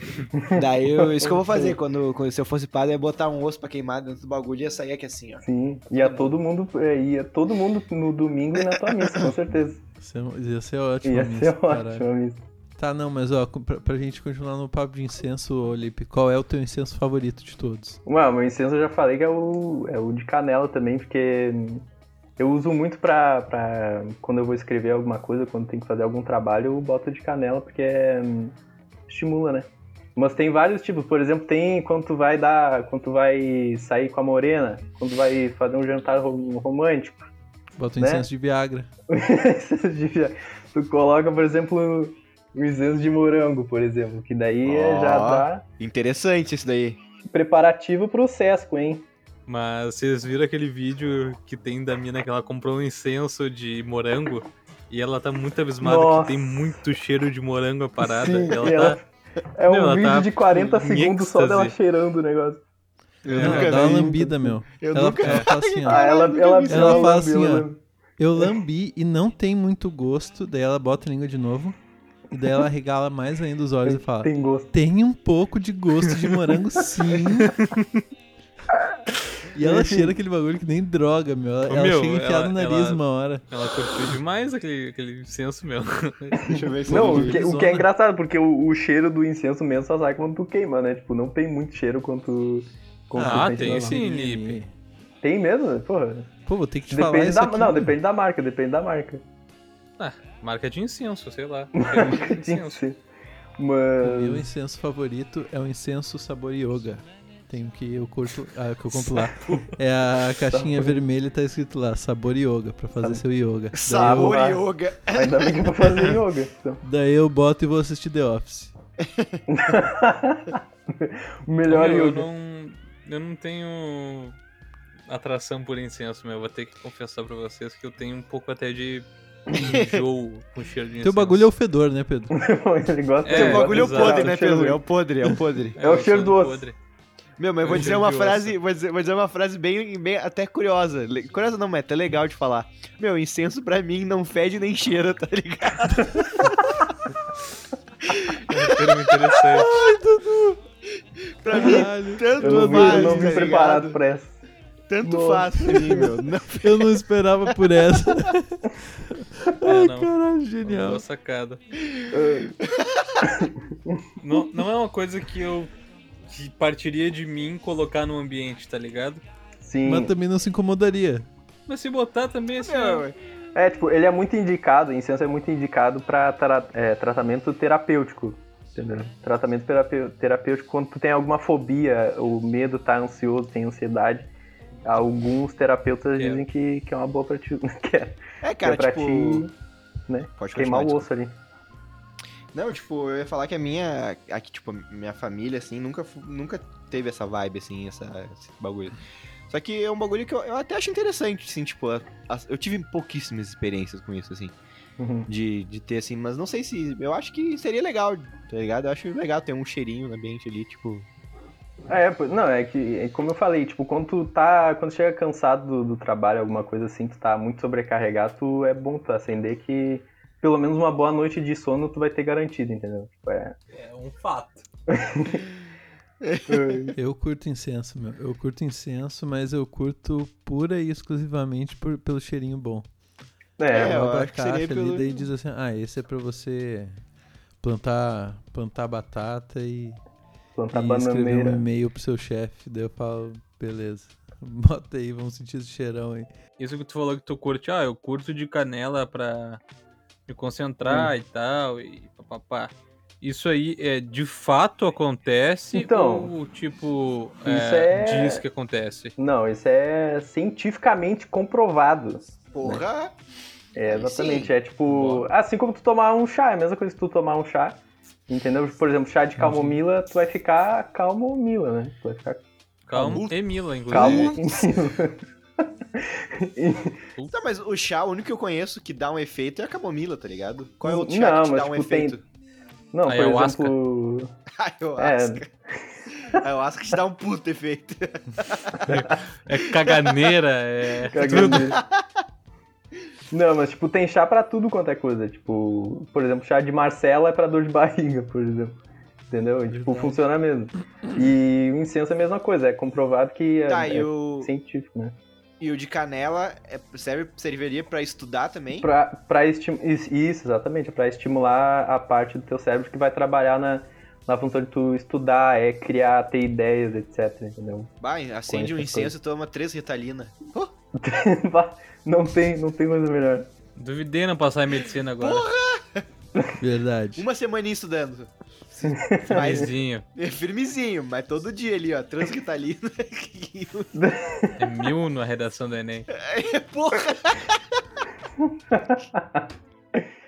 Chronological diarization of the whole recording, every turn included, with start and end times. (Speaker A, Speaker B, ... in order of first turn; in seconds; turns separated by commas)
Speaker A: 0.3-1.8, Speaker B: 0.5-5.4, Speaker A: 5.4-9.8, Speaker B: 6.0-6.3, Speaker C: 10.0-12.1, Speaker A: 11.0-12.4, Speaker C: 12.8-18.0, Speaker A: 18.1-21.8, Speaker A: 22.4-28.6, Speaker A: 29.1-37.3, Speaker C: 37.8-38.9, Speaker A: 38.0-38.3, Speaker A: 39.1-45.6, Speaker B: 44.6-47.0, Speaker A: 47.3-49.0, Speaker D: 49.5-59.0, Speaker A: 55.8-56.8, Speaker A: 58.0-59.0, Speaker A: 59.5-62.6, Speaker D: 59.7-61.7, Speaker B: 63.2-64.2, Speaker D: 63.3-63.8, Speaker C: 63.4-66.0, Speaker A: 63.6-64.5, Speaker B: 64.8-67.2, Speaker D: 65.2-65.5, Speaker A: 65.8-67.8, Speaker C: 66.7-67.7, Speaker C: 68.2-71.8, Speaker C: 72.3-77.6, Speaker A: 73.8-74.7, Speaker C: 79.5-83.4, Speaker A: 79.6-80.1, Speaker D: 81.7-86.6, Speaker A: 86.4-94.0, Speaker B: 86.4-87.4, Speaker C: 86.9-87.8, Speaker C: 93.1-94.7, Speaker D: 93.2-94.6, Speaker A: 95.2-96.3, Speaker C: 96.5-97.9, Speaker A: 96.9-99.2, Speaker D: 100.0-102.8, Speaker A: 101.8-103.0, Speaker A: 103.6-104.5, Speaker C: 104.0-114.4, Speaker B: 109.3-109.6, Speaker A: 110.5-111.0, Speaker B: 113.7-116.2, Speaker A: 113.9-116.8, Speaker C: 116.8-118.7, Speaker B: 119.0-119.4, Speaker A: 119.5-122.3, Speaker D: 121.7-124.3, Speaker D: 125.1-131.5, Speaker B: 129.6-130.0, Speaker C: 131.0-132.3, Speaker A: 132.3-134.8, Speaker D: 133.2-134.3, Speaker B: 133.3-135.8, Speaker D: 135.8-136.7, Speaker A: 135.8-136.7, Speaker B: 137.4-146.9, Speaker D: 137.6-138.5, Speaker B: 148.1-149.8, Speaker D: 148.5-149.8, Speaker C: 149.5-150.6, Speaker B: 151.3-154.0, Speaker C: 151.5-153.4, Speaker A: 151.5-151.8, Speaker A: 152.4-154.4, Speaker B: 154.9-157.0, Speaker A: 155.0-156.1, Speaker C: 155.7-161.0, Speaker D: 159.6-161.6, Speaker B: 161.8-163.3, Speaker A: 162.1-162.5, Speaker A: 163.2-164.0, Speaker D: 164.2-165.7, Speaker D: 166.3-169.2, Speaker A: 169.6-170.1, Speaker C: 169.8-171.3, Speaker D: 171.7-173.1, Speaker B: 172.6-173.2, Speaker A: 173.5-184.3, Speaker A: 184.8-189.5, Speaker D: 186.2-186.4, Speaker B: 188.4-189.5, Speaker A: 190.1-191.3, Speaker B: 190.4-191.1, Speaker B: 192.5-204.5, Speaker A: 205.0-205.3, Speaker B: 205.3-211.1, Speaker A: 211.9-223.6, Speaker D: 223.7-224.6, Speaker A: 224.9-225.4, Speaker B: 226.2-226.8, Speaker A: 226.5-226.9, Speaker C: 226.9-232.9, Speaker A: 233.6-234.0, Speaker B: 233.7-235.2, Speaker C: 233.7-237.0, Speaker C: 237.6-240.0, Speaker A: 240.6-241.6, Speaker C: 240.7-246.3, Speaker D: 246.6-249.6, Speaker D: 250.3-259.1, Speaker A: 250.8-251.1, Speaker A: 255.7-256.3, Speaker A: 257.4-258.4, Speaker A: 259.2-262.8, Speaker B: 262.5-263.1, Speaker A: 263.7-273.2, Speaker B: 263.9-264.5, Speaker D: 264.9-265.3, Speaker C: 269.4-269.8, Speaker D: 272.9-274.8, Speaker B: 273.1-274.4, Speaker A: 273.9-275.2, Speaker A: 275.9-277.0, Speaker B: 277.3-282.2, Speaker A: 280.8-282.2, Speaker A: 282.9-284.3, Speaker D: 283.1-283.7, Speaker B: 284.5-285.5, Speaker A: 285.0-285.9, Speaker B: 286.1-289.1, Speaker D: 288.9-291.8, Speaker A: 288.9-289.2, Speaker B: 289.9-290.3, Speaker A: 291.1-291.8, Speaker B: 291.2-292.0, Speaker A: 293.3-298.8, Speaker A: 299.3-305.1, Speaker C: 299.8-300.2, Speaker B: 303.7-304.5, Speaker B: 305.6-308.9, Speaker A: 308.8-317.9, Speaker B: 318.0-320.7, Speaker A: 318.5-319.1, Speaker A: 320.9-323.5, Speaker D: 323.8-325.5, Speaker B: 325.2-326.1, Speaker C: 326.6-327.2, Speaker B: 327.1-333.9, Speaker A: 328.8-329.6, Speaker D: 329.3-330.0, Speaker A: 333.9-334.6, Speaker D: 334.6-336.1, Speaker B: 336.1-337.6, Speaker A: 338.4-339.4